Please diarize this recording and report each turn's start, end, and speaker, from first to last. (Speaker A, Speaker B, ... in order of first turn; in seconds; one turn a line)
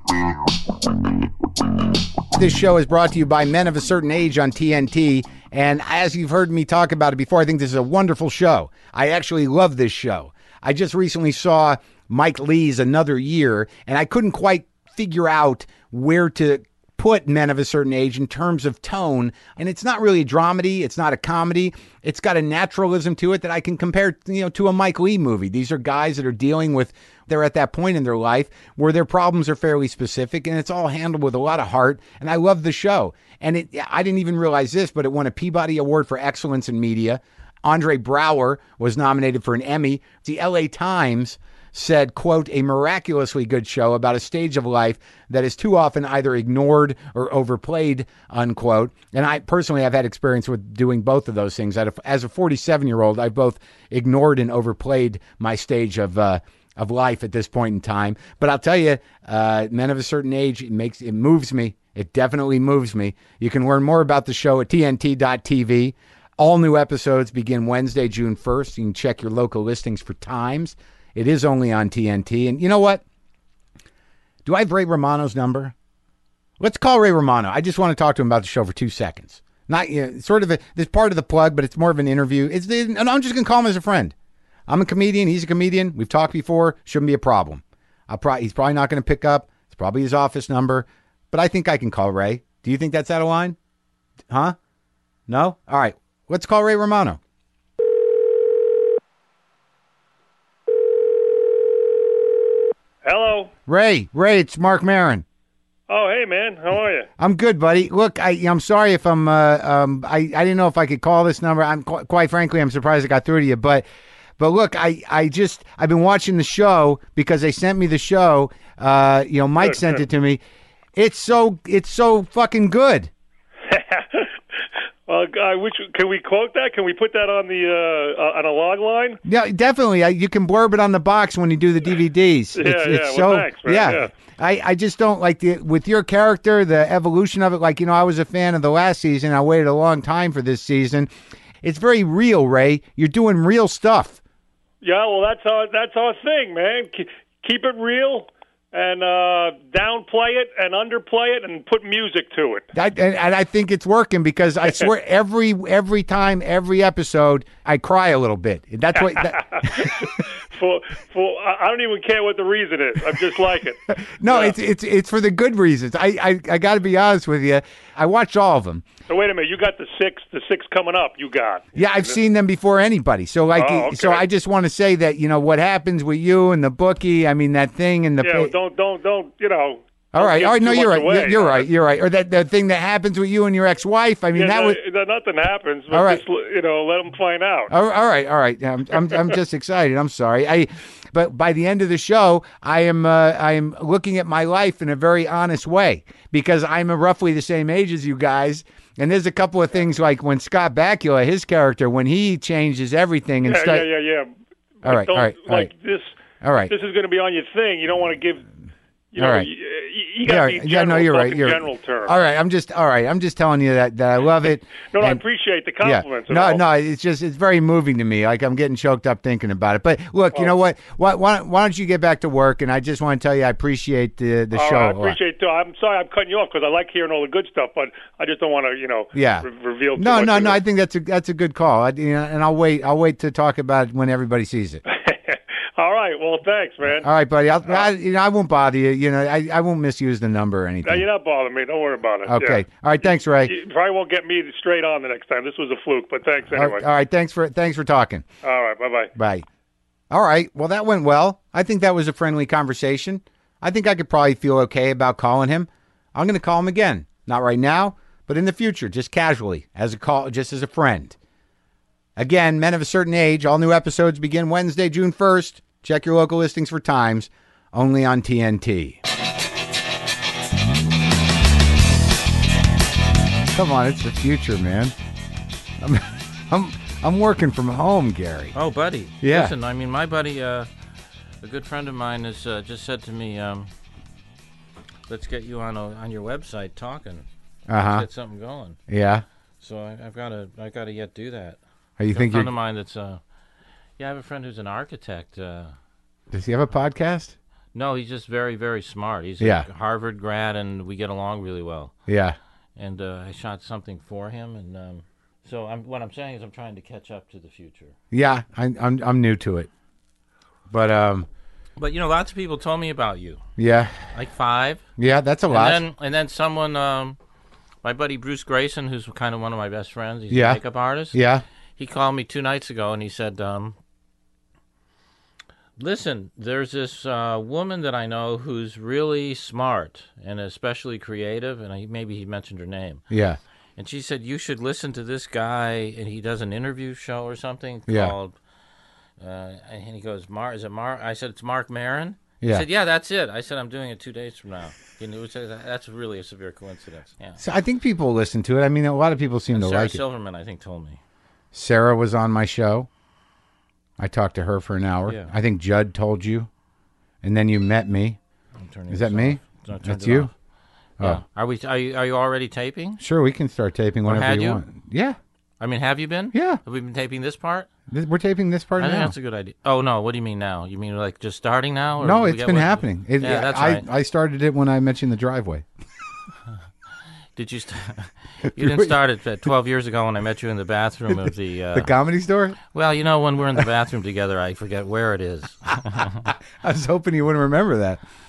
Speaker A: 2.3-73.0
Speaker A: 74.5-75.8
Speaker A: 76.6-84.1
Speaker A: 84.7-93.6
Speaker A: 94.3-94.6
Speaker A: 95.3-97.2
Speaker B: 103.0-103.5
Speaker A: 103.7-105.2
Speaker B: 105.9-107.1
Speaker A: 107.2-113.8
Speaker A: 114.4-120.4
Speaker B: 119.6-120.0
Speaker A: 121.0-123.1
Speaker B: 123.7-124.3
Speaker B: 125.1-129.2
Speaker A: 129.2-141.1
Speaker B: 132.6-134.1
Speaker A: 141.6-144.2
Speaker B: 144.8-152.7
Speaker A: 152.7-160.2
Speaker B: 159.2-164.6
Speaker A: 163.9-168.8
Speaker B: 169.1-172.1
Speaker A: 171.8-178.5
Speaker B: 173.6-174.2
Speaker B: 178.2-181.7
Speaker A: 180.1-184.8
Speaker B: 184.3-187.7
Speaker A: 185.9-186.2
Speaker A: 187.7-203.9
Speaker B: 203.4-204.3
Speaker B: 204.8-206.1
Speaker A: 204.8-205.7
Speaker A: 206.4-206.7
Speaker B: 206.7-208.5
Speaker B: 209.1-212.1
Speaker A: 209.2-209.5
Speaker A: 210.2-215.2
Speaker B: 214.9-216.6
Speaker A: 215.8-225.2
Speaker B: 224.5-230.6
Speaker A: 229.1-234.8
Speaker B: 234.9-237.1
Speaker A: 236.9-241.1
Speaker B: 240.8-242.6
Speaker A: 242.2-243.5
Speaker B: 243.4-246.8
Speaker A: 246.5-248.2
Speaker B: 248.4-249.1
Speaker A: 249.2-249.5
Speaker A: 250.1-261.2
Speaker A: 262.2-269.0
Speaker A: 273.5-274.9
Speaker A: 275.8-278.5
Speaker C: 278.5-280.7
Speaker A: 279.2-279.5
Speaker C: 281.4-283.7
Speaker C: 285.1-287.2
Speaker A: 287.7-288.1
Speaker C: 287.8-288.8
Speaker A: 288.9-289.2
Speaker C: 289.6-291.6
Speaker A: 292.0-292.5
Speaker C: 292.1-293.2
Speaker C: 294.0-295.8
Speaker A: 296.3-297.4
Speaker C: 297.7-301.9
Speaker A: 299.4-299.7
Speaker A: 302.1-302.4
Speaker C: 302.8-307.9
Speaker A: 308.1-309.7
Speaker A: 310.7-311.3
Speaker C: 311.8-313.4
Speaker A: 313.6-314.0
Speaker C: 314.1-314.9
Speaker A: 315.0-315.8
Speaker C: 315.5-317.2
Speaker C: 317.8-321.2
Speaker A: 320.3-320.6
Speaker A: 321.1-321.4
Speaker C: 321.8-323.8
Speaker C: 325.8-333.1
Speaker A: 333.1-333.4
Speaker C: 333.8-338.4
Speaker A: 337.9-338.1
Speaker C: 339.2-347.4
Speaker A: 342.4-342.7
Speaker A: 347.4-350.0
Speaker C: 349.5-351.0
Speaker A: 351.5-352.9
Speaker A: 354.0-356.5
Speaker C: 355.1-355.3
Speaker A: 357.2-358.2
Speaker C: 358.6-360.3
Speaker A: 358.9-360.3
Speaker C: 361.0-363.0
Speaker A: 363.0-365.2
Speaker C: 364.1-364.6
Speaker C: 365.6-367.7
Speaker A: 366.3-366.6
Speaker A: 367.9-369.1
Speaker C: 368.8-373.9
Speaker A: 372.0-375.7
Speaker C: 377.4-381.9
Speaker A: 378.6-378.9
Speaker A: 381.1-382.6
Speaker C: 382.7-386.3
Speaker A: 386.3-388.0